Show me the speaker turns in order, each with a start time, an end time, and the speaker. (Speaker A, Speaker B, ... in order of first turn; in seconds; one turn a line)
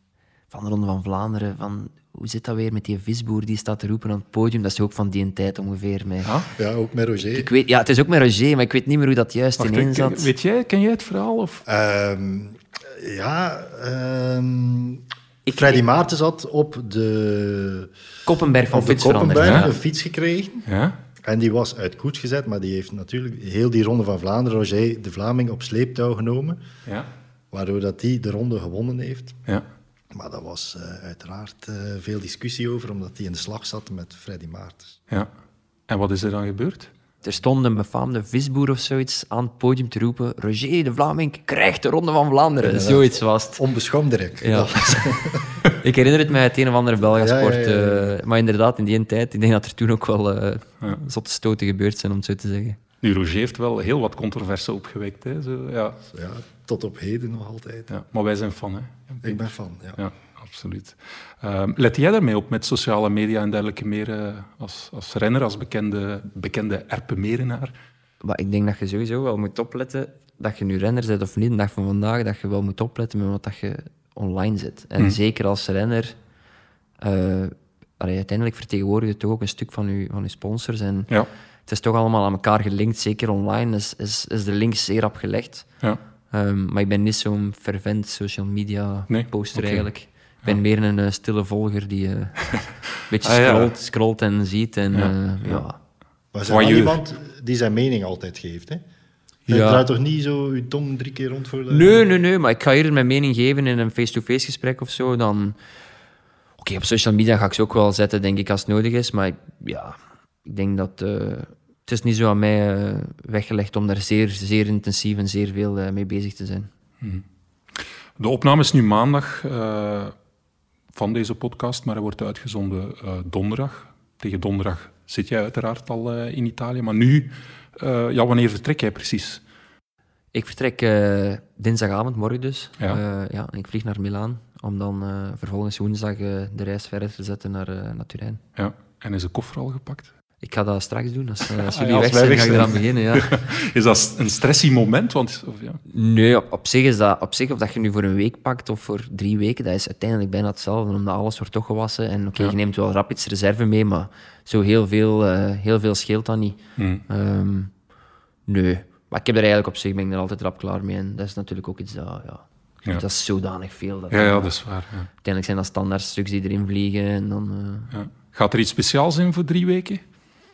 Speaker A: 0.5-6.3
Speaker B: 6.5-7.5
Speaker A: 7.3-10.3
Speaker C: 9.6-11.6
Speaker B: 11.7-17.9
Speaker A: 15.4-15.8
Speaker A: 18.2-19.7
Speaker B: 18.7-20.7
Speaker C: 19.3-19.7
Speaker C: 20.7-21.0
Speaker B: 21.2-26.6
Speaker B: 27.5-29.4
Speaker B: 30.1-35.0
Speaker C: 35.9-36.9
Speaker A: 37.2-43.6
Speaker B: 42.6-45.6
Speaker A: 44.4-52.8
Speaker B: 47.1-48.1
Speaker C: 53.0-56.0
Speaker B: 56.1-57.9
Speaker C: 57.9-67.7
Speaker B: 59.2-60.0
Speaker A: 68.2-76.1
Speaker A: 77.0-81.1
Speaker A: 81.7-85.7
Speaker A: 86.3-95.8
Speaker C: 89.1-89.8
Speaker C: 93.2-93.7
Speaker C: 94.9-95.6
Speaker B: 96.3-98.8
Speaker C: 96.5-97.0
Speaker B: 99.5-102.0
Speaker A: 99.5-99.8
Speaker A: 101.7-105.6
Speaker A: 106.6-116.7
Speaker C: 117.0-120.1
Speaker C: 120.9-129.4
Speaker A: 130.3-138.4
Speaker C: 138.6-140.1
Speaker A: 140.4-143.4
Speaker C: 141.5-145.8
Speaker A: 145.9-157.7
Speaker C: 156.8-157.0
Speaker A: 158.5-164.5
Speaker C: 164.1-165.1
Speaker A: 165.2-167.9
Speaker C: 167.9-170.0